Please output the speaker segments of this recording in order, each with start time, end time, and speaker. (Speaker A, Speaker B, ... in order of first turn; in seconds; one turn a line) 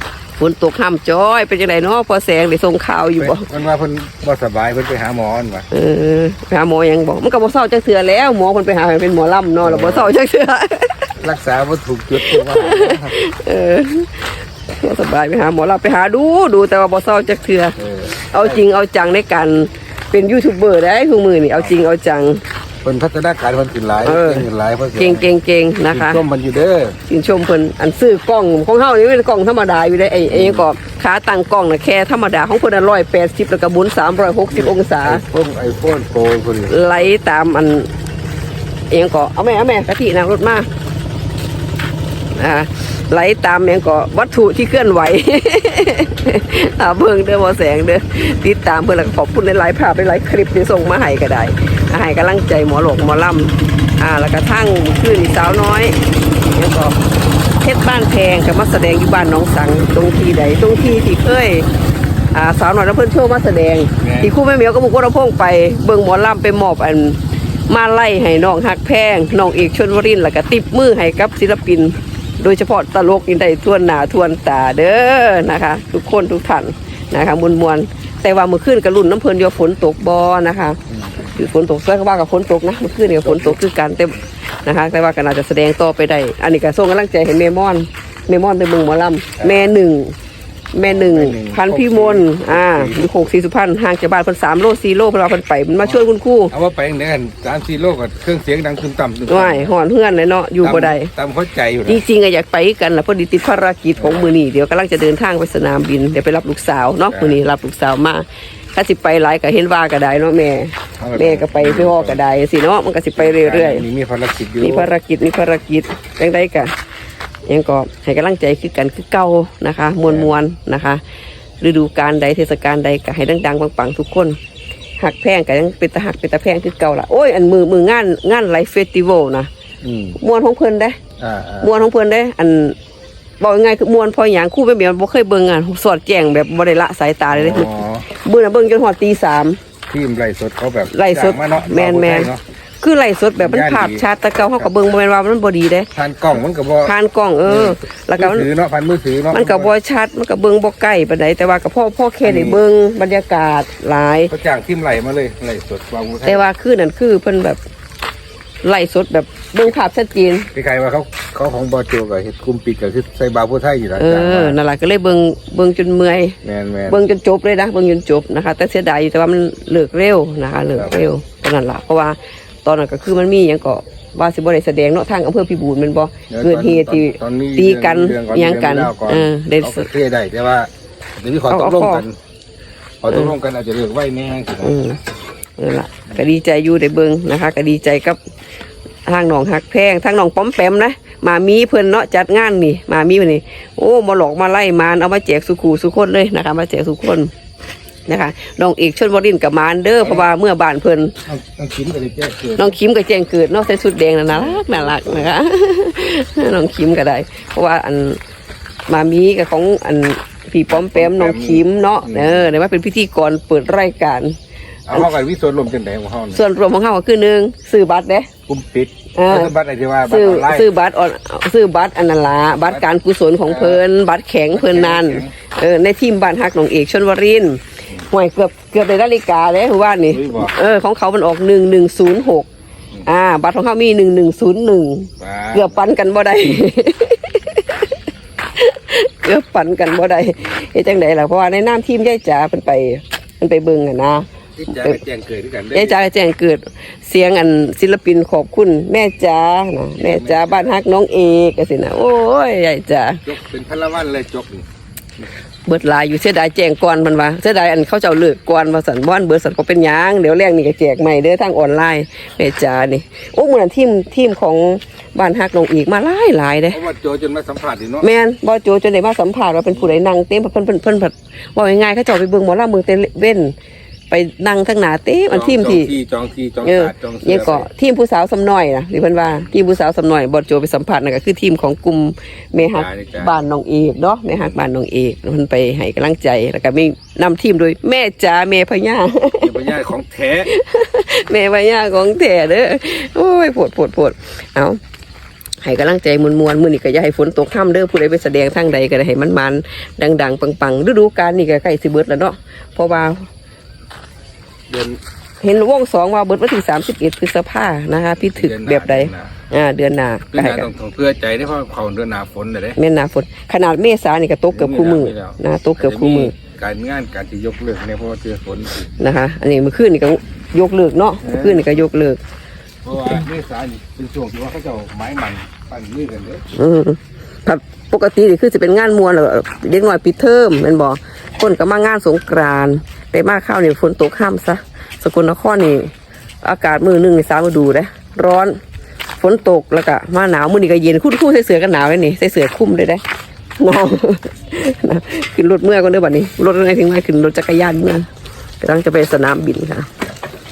Speaker A: 0.4-3.5
Speaker B: 3.2-5.7
Speaker A: 5.7-11.1
Speaker B: 9.6-10.1
Speaker B: 11.2-13.1
Speaker A: 12.2-17.8
Speaker B: 17.8-18.6
Speaker A: 18.3-22.4
Speaker B: 22.8-25.3
Speaker A: 24.0-26.2
Speaker B: 25.9-27.0
Speaker A: 27.1-35.2
Speaker B: 30.2-30.7
Speaker B: 34.5-37.1
Speaker A: 36.7-37.9
Speaker A: 38.9-40.7
Speaker A: 42.3-57.0
Speaker A: 57.6-61.7
Speaker A: 62.3-67.2
Speaker B: 64.0-64.3
Speaker A: 67.7-90.1
Speaker B: 83.2-83.6
Speaker B: 89.4-89.7
Speaker A: 90.7-96.5
Speaker B: 90.8-93.3
Speaker B: 96.5-99.7
Speaker A: 99.3-101.1
Speaker B: 100.6-102.0
Speaker A: 101.8-113.8
Speaker B: 104.0-104.3
Speaker B: 107.1-107.4
Speaker B: 111.0-112.2
Speaker B: 113.2-114.9
Speaker A: 114.6-116.7
Speaker A: 117.5-121.0
Speaker B: 120.0-120.3
Speaker A: 121.6-124.4
Speaker A: 125.0-129.5
Speaker B: 129.8-130.2
Speaker A: 130.2-131.0
Speaker B: 131.2-131.8
Speaker A: 131.6-132.8
Speaker A: 133.4-139.6
Speaker B: 137.3-138.1
Speaker B: 139.9-142.4
Speaker A: 140.9-145.9
Speaker B: 143.4-144.7
Speaker B: 145.9-146.9
Speaker A: 146.8-148.5
Speaker B: 147.4-149.7
Speaker A: 149.3-154.3
Speaker B: 152.2-152.6
Speaker B: 154.3-156.5
Speaker A: 156.2-157.6
Speaker A: 158.6-160.5
Speaker B: 160.5-164.6
Speaker A: 164.0-166.4
Speaker B: 166.4-167.0
Speaker A: 166.9-179.9
Speaker B: 170.7-171.1
Speaker B: 176.3-182.2
Speaker A: 181.5-182.1
Speaker B: 183.0-184.8
Speaker A: 184.6-185.0
Speaker A: 185.6-188.2
Speaker A: 189.1-197.3
Speaker A: 198.1-201.2
Speaker B: 200.0-200.3
Speaker B: 201.2-202.7
Speaker A: 202.6-208.2
Speaker B: 204.3-205.3
Speaker A: 208.9-214.3
Speaker B: 210.7-212.5
Speaker B: 214.9-216.4
Speaker A: 216.3-218.3
Speaker B: 218.5-220.7
Speaker A: 219.2-219.5
Speaker A: 220.1-232.5
Speaker B: 223.4-223.8
Speaker B: 224.5-225.3
Speaker B: 230.1-230.6
Speaker A: 233.1-237.9
Speaker B: 235.2-235.8
Speaker A: 238.6-245.0
Speaker B: 244.6-246.1
Speaker A: 245.7-253.2
Speaker B: 250.0-250.8
Speaker B: 253.2-254.7
Speaker A: 255.7-266.8
Speaker B: 266.7-268.1
Speaker A: 268.0-273.5
Speaker B: 269.7-270.0
Speaker A: 274.1-275.9
Speaker B: 275.3-277.7
Speaker A: 276.6-289.6
Speaker B: 282.6-283.4
Speaker B: 289.4-290.5
Speaker A: 290.5-294.8
Speaker A: 295.6-303.3
Speaker B: 304.7-305.0
Speaker A: 305.4-310.7
Speaker B: 308.2-309.3
Speaker B: 310.3-312.8
Speaker A: 312.8-316.3
Speaker B: 314.5-318.9
Speaker A: 319.0-322.2
Speaker B: 321.2-321.8
Speaker B: 322.8-326.4
Speaker A: 326.5-335.9
Speaker A: 336.4-338.6
Speaker A: 339.2-343.0
Speaker A: 343.6-348.1
Speaker A: 348.6-349.9